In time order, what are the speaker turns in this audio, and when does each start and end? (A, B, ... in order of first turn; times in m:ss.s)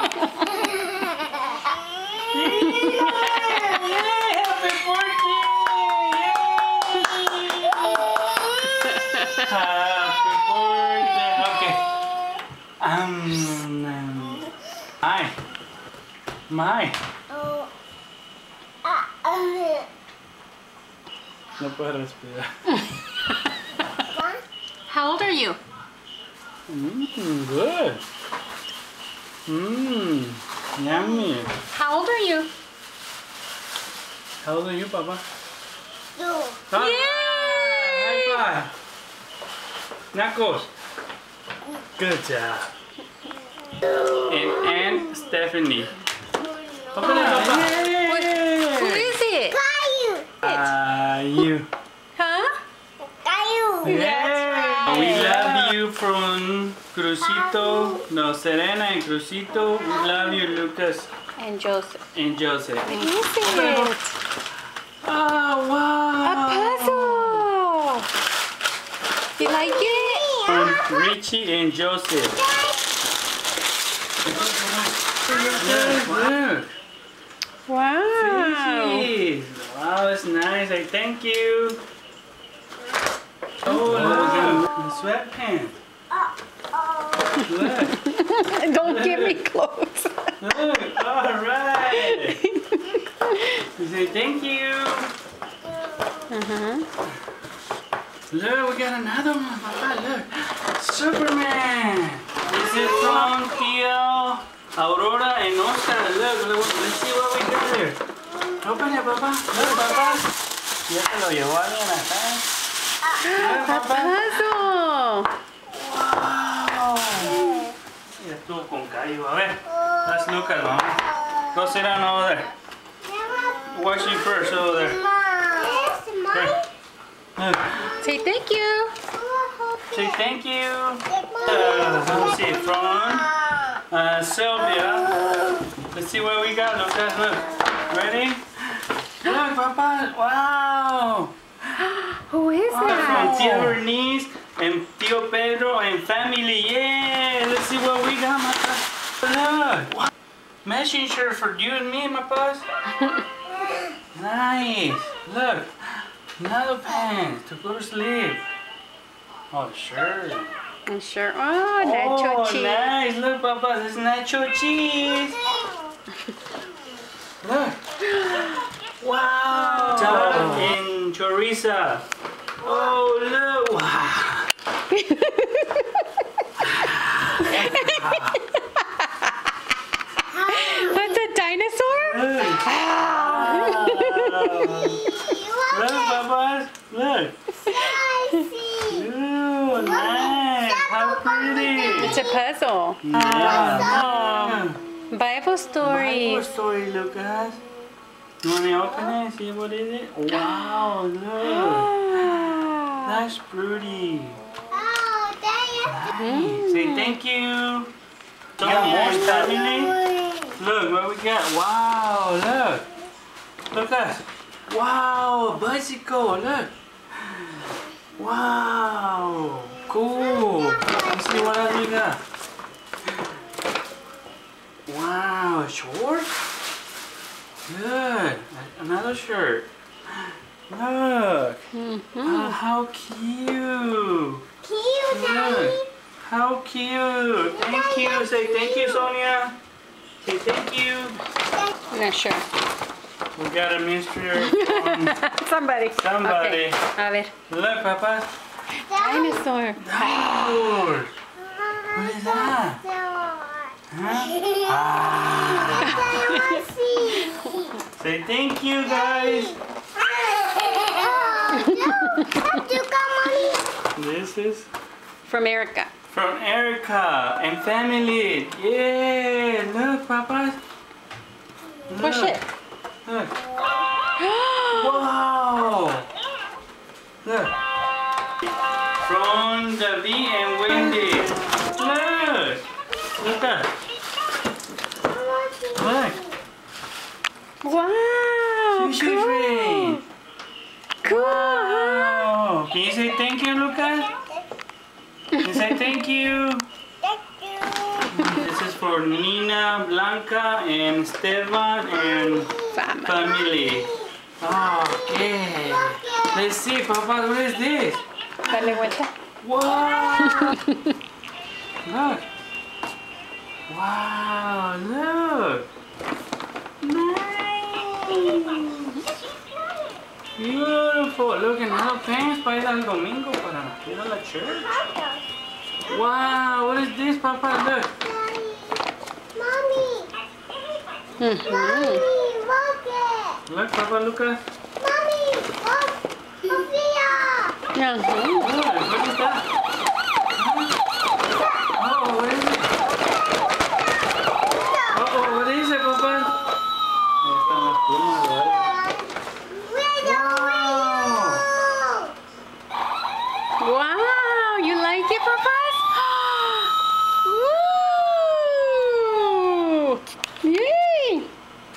0:02.3-0:08.0 A
0:09.1-0:09.3 B
0:09.3-0:11.9 A
0:12.8-0:14.5 A
0:15.0-0:15.4 A
0:16.5-0:17.0 A
0:17.3-0:17.7 C
0:18.9-0:19.9 C
0:21.6-0:22.5 A
0:24.1-0:24.4 C
0:24.9-0:25.6 B
0:26.7-0:28.0 A
0:29.5-0:31.6 A
0:31.7-0:32.5 B
0:34.4-0:35.2 A
0:36.2-0:36.6 C
0:36.7-0:38.7 A
0:36.7-0:38.4 B
0:40.1-0:40.7 A
0:42.0-0:42.7 A
0:44.2-0:46.0 A
0:46.4-0:47.5 C
0:46.9-0:49.2 A
0:47.0-0:49.6 B
0:49.5-0:50.4 C
0:50.4-0:51.7 A
0:50.4-0:50.7 B
0:52.2-0:52.6 B
0:53.2-0:54.0 C
0:53.8-1:01.1 A
0:53.8-0:55.8 B
0:57.3-0:58.0 C
1:01.4-1:02.0 B
1:02.1-1:04.0 A
1:02.8-1:04.1 B
1:05.0-1:07.5 A
1:06.2-1:08.1 B
1:09.4-1:10.4 B
1:09.4-1:10.9 C
1:10.4-1:12.4 A
1:12.4-1:12.8 C
1:14.3-1:16.7 A
1:15.3-1:15.6 C
1:17.7-1:19.1 B
1:18.1-1:21.8 A
1:23.6-1:25.8 A
1:23.6-1:24.6 B
1:26.8-1:27.4 C
1:27.4-1:30.3 B
1:27.5-1:28.0 A
1:28.8-1:29.4 A
1:30.4-1:32.4 A
1:31.9-1:33.6 B
1:33.8-1:35.1 A
1:36.3-1:36.9 B
1:38.3-1:48.0 A
1:48.6-1:50.3 A
1:49.9-1:50.2 C
1:50.9-1:52.5 A
1:53.2-1:55.3 B
1:53.3-1:54.4 A
1:55.7-1:57.6 A
1:58.2-2:02.5 A
1:59.8-2:00.4 C
2:03.0-2:06.6 C
2:03.5-2:05.0 A
2:06.3-2:06.6 A
2:07.4-2:07.9 A
2:08.0-2:09.0 B
2:09.1-2:10.1 C
2:09.9-2:13.3 A
2:11.1-2:13.7 C
2:13.9-2:15.2 A
2:15.2-2:15.5 C
2:15.9-2:18.5 A
2:19.2-2:21.4 A
2:21.8-2:23.7 B
2:22.7-2:30.0 A
2:30.6-2:32.6 A
2:34.1-2:38.5 A
2:39.5-2:40.5 A
2:40.9-2:42.9 B
2:41.8-2:45.4 A
2:47.4-2:47.8 A
2:48.2-2:48.5 B
2:49.0-2:52.0 A
2:49.5-2:50.7 B
2:52.6-2:54.5 A
2:54.9-2:56.0 B
2:56.6-2:58.4 A
2:57.4-2:59.1 B
3:00.3-3:05.3 B
3:00.5-3:00.8 C
3:02.0-3:07.4 A
3:04.7-3:06.1 C
3:07.6-3:08.0 B
3:07.8-3:09.0 C
3:08.9-3:12.2 A
3:09.7-3:12.3 C
3:12.0-3:16.5 B
3:13.0-3:14.8 A
3:13.2-3:14.5 C
3:15.8-3:17.6 A
3:18.4-3:22.5 A
3:20.3-3:23.1 B
3:23.0-3:24.4 A
3:24.7-3:26.0 C
3:25.8-3:27.9 A
3:26.1-3:27.2 B
3:28.6-3:30.0 A
3:28.9-3:30.5 C
3:30.5-3:32.9 A
3:33.7-3:42.2 A
3:40.3-3:41.6 C
3:44.9-3:46.4 A
3:47.7-3:51.6 A
3:51.7-3:52.6 B
3:52.2-3:54.4 A
3:54.6-3:55.8 C
3:55.0-3:59.6 A
3:57.6-3:59.0 C
4:00.2-4:01.2 A
4:01.9-4:02.4 B
4:03.3-4:05.2 A
4:04.4-4:07.3 B
4:05.9-4:06.8 A
4:07.5-4:08.3 A
4:08.8-4:10.5 B
4:08.9-4:09.4 C
4:09.8-4:11.1 A
4:11.5-4:13.7 C
4:11.9-4:12.8 A
4:13.9-4:16.4 A
4:14.4-4:14.7 C
4:15.6-4:17.8 C
4:15.8-4:16.6 B
4:17.9-4:19.6 A
4:19.0-4:23.6 C
4:21.6-4:22.5 B
4:23.9-4:24.7 A
4:25.2-4:25.9 B
4:26.1-4:30.6 A
4:31.9-4:32.4 A
4:32.0-4:32.4 B
4:33.0-4:33.3 A
4:34.2-4:35.0 B
4:34.7-4:36.1 A
4:37.2-4:37.6 A
4:39.0-4:42.6 A
4:43.2-4:43.7 A
4:45.1-4:46.2 C
4:45.7-4:46.2 A
4:47.6-4:50.0 B
4:48.7-4:50.0 A
4:51.0-4:52.3 B
4:51.0-4:54.1 A
4:55.4-4:55.7 B
4:55.4-4:56.6 A
4:57.1-4:58.1 C
4:58.1-5:10.6 A
5:02.7-5:03.2 B
5:03.3-5:03.8 C
5:04.6-5:05.1 C
5:05.8-5:06.3 C
5:08.5-5:09.1 B
5:10.2-5:10.9 B
5:11.8-5:12.2 A
5:13.7-5:15.7 A
5:16.8-5:19.1 A
5:20.4-5:24.8 A
5:24.6-5:25.2 C
5:25.8-5:28.0 A
5:28.0-5:28.8 C
5:29.3-5:30.1 C
5:31.2-5:32.0 B
5:31.4-5:33.4 C
5:33.5-5:34.4 A
5:34.8-5:37.6 C
5:37.7-5:38.5 B
5:38.4-5:39.5 A
5:40.4-5:40.8 A
5:41.7-5:42.8 A
5:44.9-5:46.4 A
5:47.2-5:48.7 A
5:49.5-5:52.0 C
5:50.0-5:51.5 A
5:53.6-6:01.3 B